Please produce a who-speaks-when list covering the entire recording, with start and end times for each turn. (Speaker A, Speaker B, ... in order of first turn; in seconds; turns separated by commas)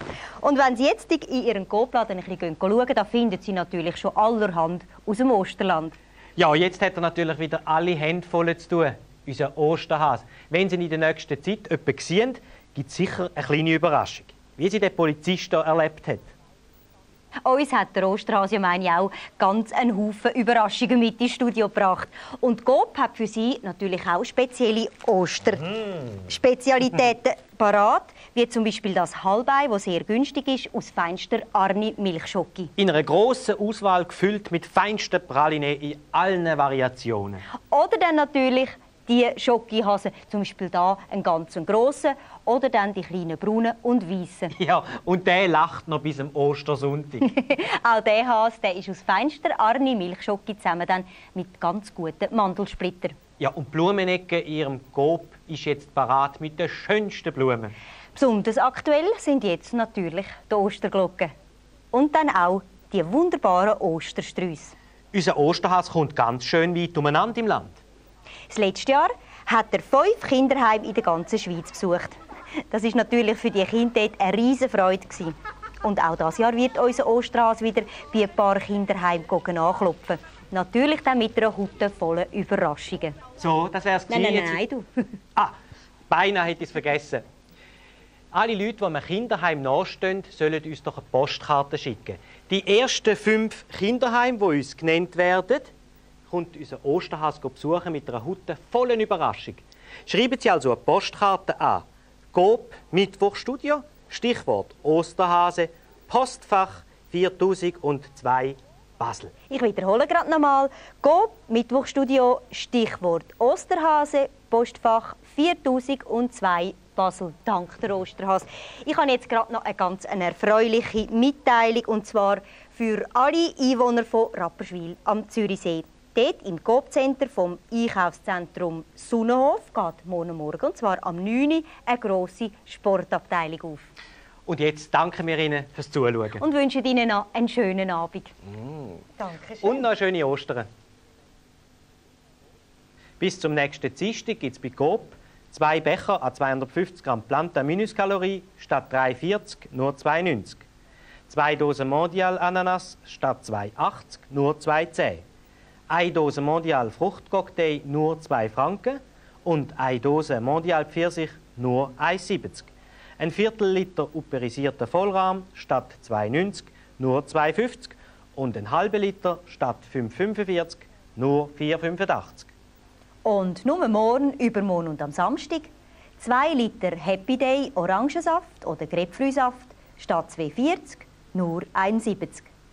Speaker A: 0.4-6.0, Speaker B: 6.4-16.3, Speaker A: 17.4-32.7, Speaker B: 32.8-37.5, Speaker A: 37.7-44.5, Speaker B: 44.5-47.3, Speaker A: 47.2-53.1, Speaker B: 53.4-57.7, Speaker A: 58.1-61.3, Speaker A: 61.9-64.7, Speaker B: 65.1-67.8, Speaker A: 68.5-72.2, Speaker A: 72.7-83.2, Speaker B: 83.4-84.6, Speaker A: 84.1-84.9, Speaker B: 86.1-87.2, Speaker B: 88.3-95.7, Speaker B: 96.3-109.3, Speaker A: 109.5-133.9, Speaker B: 134.5-136.4, Speaker A: 136.4-138.3, Speaker A: 139.2-139.8, Speaker B: 139.6-140.7, Speaker B: 143.2-150.7, Speaker B: 151.3-155.2, Speaker B: 155.9-172.5, Speaker A: 173.2-182.5